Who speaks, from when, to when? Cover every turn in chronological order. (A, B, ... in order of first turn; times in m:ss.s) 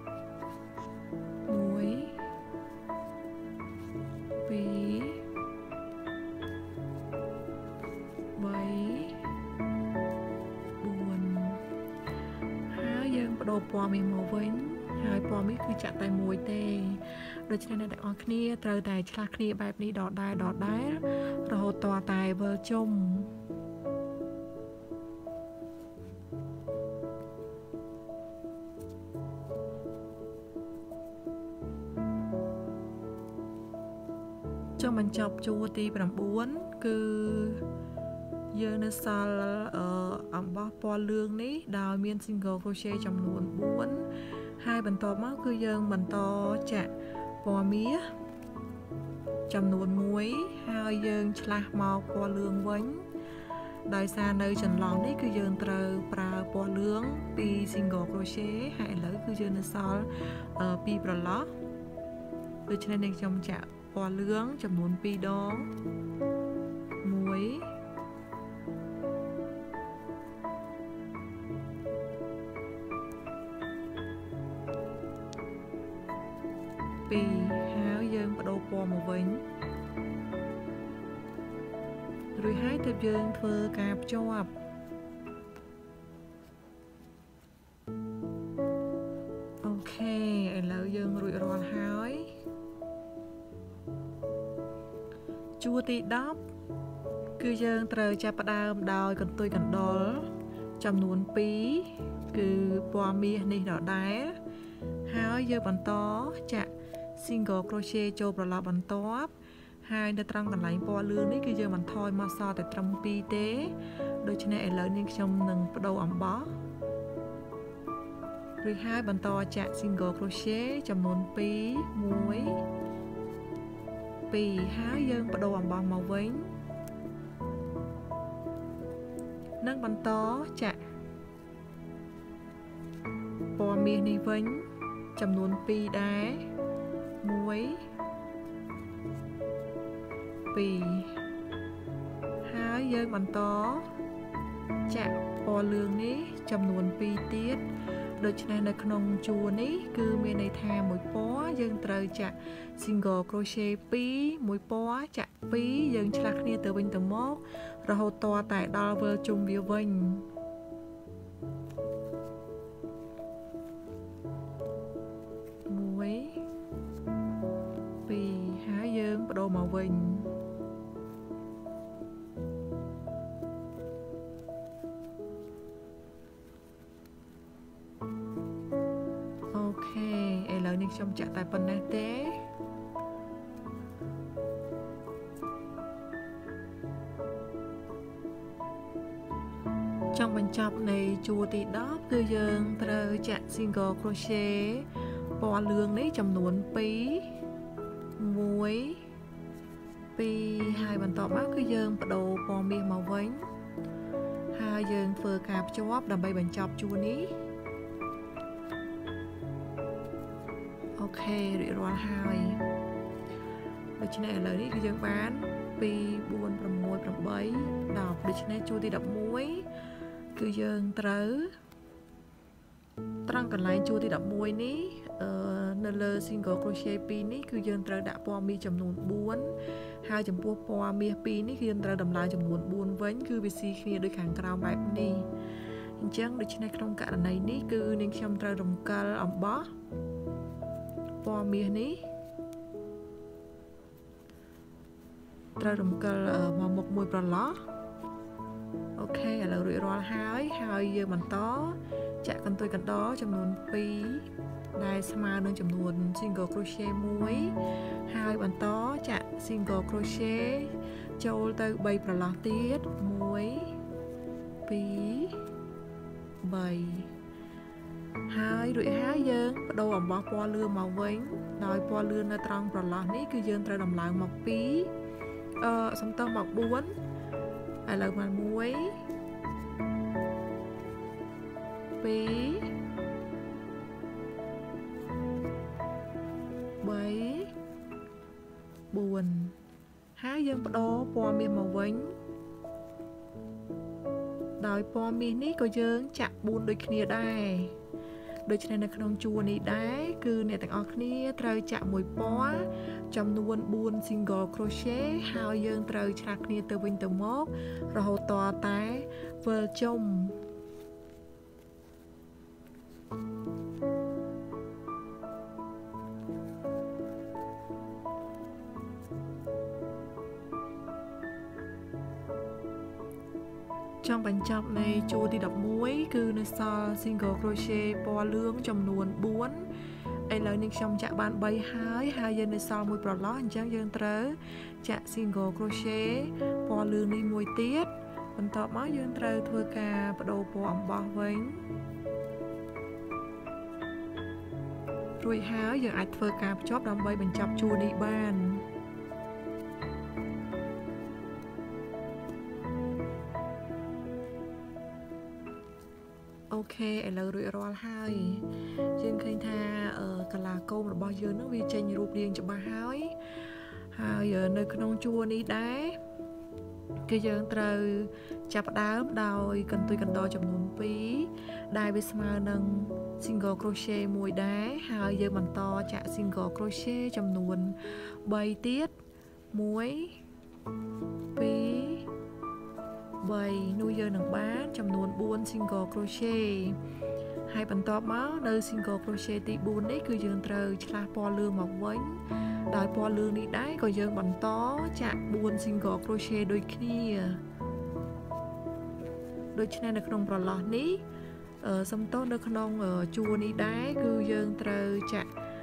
0:01.5-0:02.2 A
0:04.4-0:05.2 A
0:08.4-0:09.2 A
0:10.8-0:11.6 A
0:12.7-0:23.3 A
0:34.8-0:37.6 A
0:38.5-0:44.1 A
0:44.6-0:46.9 A
0:47.4-0:48.0 A
0:49.5-0:53.0 A
0:53.8-1:01.5 A
1:02.7-1:05.7 A
1:07.0-1:07.7 A
1:17.1-1:19.4 A
1:22.3-1:24.5 A
1:29.6-1:32.4 A
1:35.6-1:36.4 A
1:37.4-1:40.3 A
1:40.8-1:44.3 A
1:45.1-1:49.3 A
1:49.8-1:56.5 A
1:58.6-2:02.6 A
2:04.3-2:06.5 A
2:09.6-2:10.8 A
2:13.5-2:16.5 A
2:17.2-2:17.8 A
2:20.5-2:21.2 A
2:22.4-2:23.9 A
2:24.9-2:27.6 A
2:28.2-2:40.3 A
2:45.7-2:46.4 A
2:48.1-2:50.3 A
2:59.5-3:02.4 A
3:10.1-3:14.9 A
3:15.4-3:17.3 A
3:18.2-3:19.0 A
3:20.2-3:23.4 A
3:24.5-3:27.3 A
3:31.0-3:32.6 A
3:34.0-3:39.7 A
3:40.3-3:41.5 A
3:43.3-3:55.3 A
3:56.0-3:59.7 A
4:01.2-4:02.0 A
4:05.6-4:07.6 A
4:09.0-4:17.5 A
4:18.1-4:23.7 A
4:24.6-4:25.4 A
4:26.4-4:27.1 A
4:28.3-4:34.9 A
4:35.6-4:36.9 A
4:37.8-4:39.0 A
4:42.0-4:42.7 A
4:46.8-4:47.5 A
4:48.9-4:49.6 A
4:50.2-4:52.1 A
4:54.6-4:57.8 A
4:58.4-5:10.4 A
5:24.0-5:29.7 A
5:30.3-5:41.6 A
5:45.2-5:48.6 A
5:56.5-5:58.4 A
5:59.0-6:03.2 A
6:03.9-6:06.0 A
6:07.1-6:18.9 A
6:19.5-6:20.2 A
6:21.3-6:22.1 A
6:23.2-6:26.8 A
6:27.5-6:37.4 A
6:39.5-6:41.0 A
6:41.6-6:45.3 A